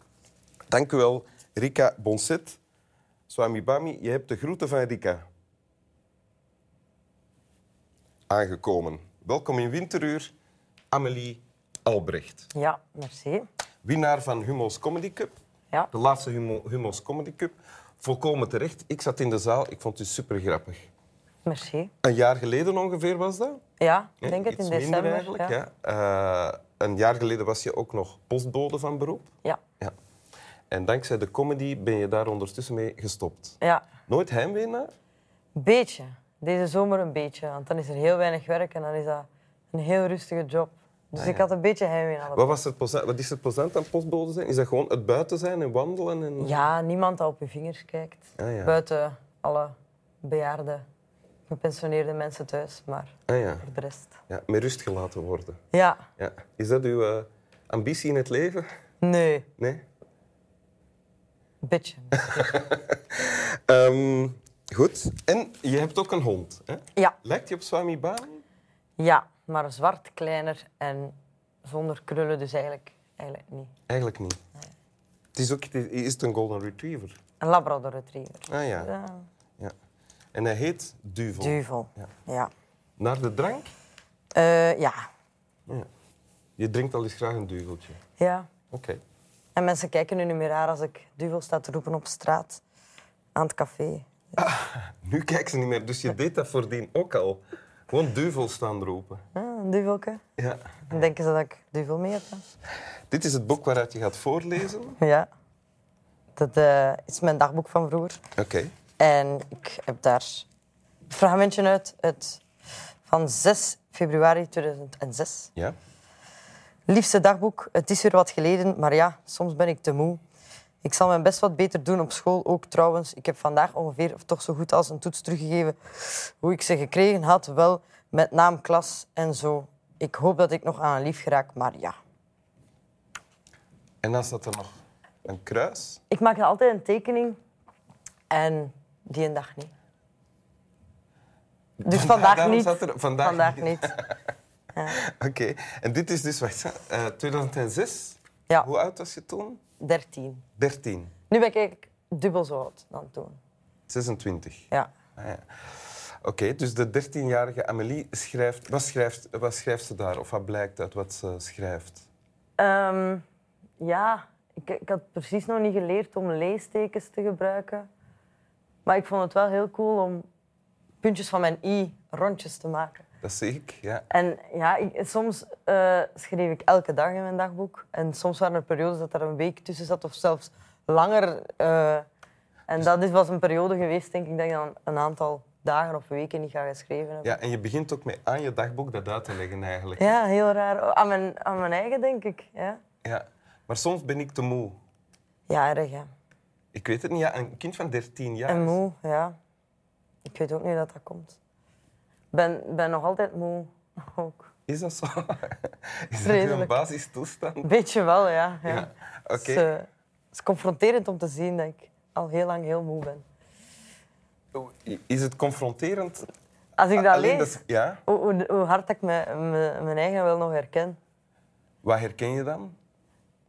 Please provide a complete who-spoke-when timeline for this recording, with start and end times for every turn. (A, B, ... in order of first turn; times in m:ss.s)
0:00.7-0:02.6 A
0:03.3-0:05.2 A
0:08.3-0:10.3 A
0:10.9-0:12.5 A
0:12.5-0:13.4 B
0:13.8-0:15.3 A
0:15.9-0:20.9 A
0:21.4-0:21.9 B
0:22.0-0:23.6 A
0:23.8-0:25.6 B
0:24.2-0:29.3 A
0:30.7-0:33.6 A
0:33.6-0:33.9 B
0:34.1-0:34.9 A
0:35.6-0:42.6 B
0:41.2-0:41.5 A
0:42.3-0:46.6 A
0:46.4-0:50.8 B
0:48.4-0:48.8 A
0:51.5-0:54.1 B
0:53.3-0:53.7 A
0:54.3-0:55.6 A
0:55.7-0:56.0 B
0:56.2-0:58.7 A
0:59.0-0:59.5 B
0:59.6-0:59.8 A
1:01.6-1:02.7 B
1:02.2-1:08.4 A
1:09.0-1:13.7 B
1:13.9-1:14.4 A
1:15.4-1:17.2 A
1:17.4-1:19.3 B
1:18.5-1:18.9 A
1:20.3-1:22.1 A
1:21.4-1:22.5 B
1:23.0-1:23.7 A
1:24.4-1:25.0 B
1:26.6-1:28.0 A
1:28.2-1:28.5 B
1:28.7-1:29.0 A
1:29.6-1:32.6 B
1:33.4-1:34.1 B
1:34.4-1:39.2 A
1:39.4-1:40.2 B
1:40.4-1:41.1 A
1:40.9-1:42.4 B
1:43.1-1:45.0 A
1:45.0-1:45.3 B
1:46.4-1:48.2 B
1:48.4-1:48.7 A
1:49.0-1:50.5 B
1:51.1-1:52.4 B
1:53.1-1:55.5 B
1:56.9-2:00.2 B
2:00.8-2:12.0 B
2:14.0-2:16.0 A
2:16.1-2:17.4 B
2:18.3-2:19.7 B
2:21.8-2:23.9 B
2:21.9-2:24.1 A
2:25.0-2:29.6 A
2:29.8-2:30.4 B
2:30.6-2:31.1 A
2:31.3-2:33.4 B
2:33.9-2:42.1 A
2:42.6-2:43.2 B
2:43.8-2:47.9 B
2:48.8-2:50.2 B
2:51.0-2:53.0 B
2:53.2-2:54.1 A
2:54.1-3:02.1 B
3:02.7-3:07.4 B
3:07.2-3:10.1 A
3:10.0-3:12.8 B
3:13.0-3:14.8 A
3:15.5-3:16.1 B
3:16.7-3:18.8 A
3:18.5-3:19.3 B
3:20.2-3:21.4 B
3:22.3-3:24.5 B
3:24.7-3:27.7 A
3:26.2-3:26.8 B
3:27.6-3:33.2 B
3:28.6-3:29.7 A
3:34.6-3:36.2 A
3:36.8-3:41.0 B
3:36.9-3:38.0 A
3:41.8-3:42.8 A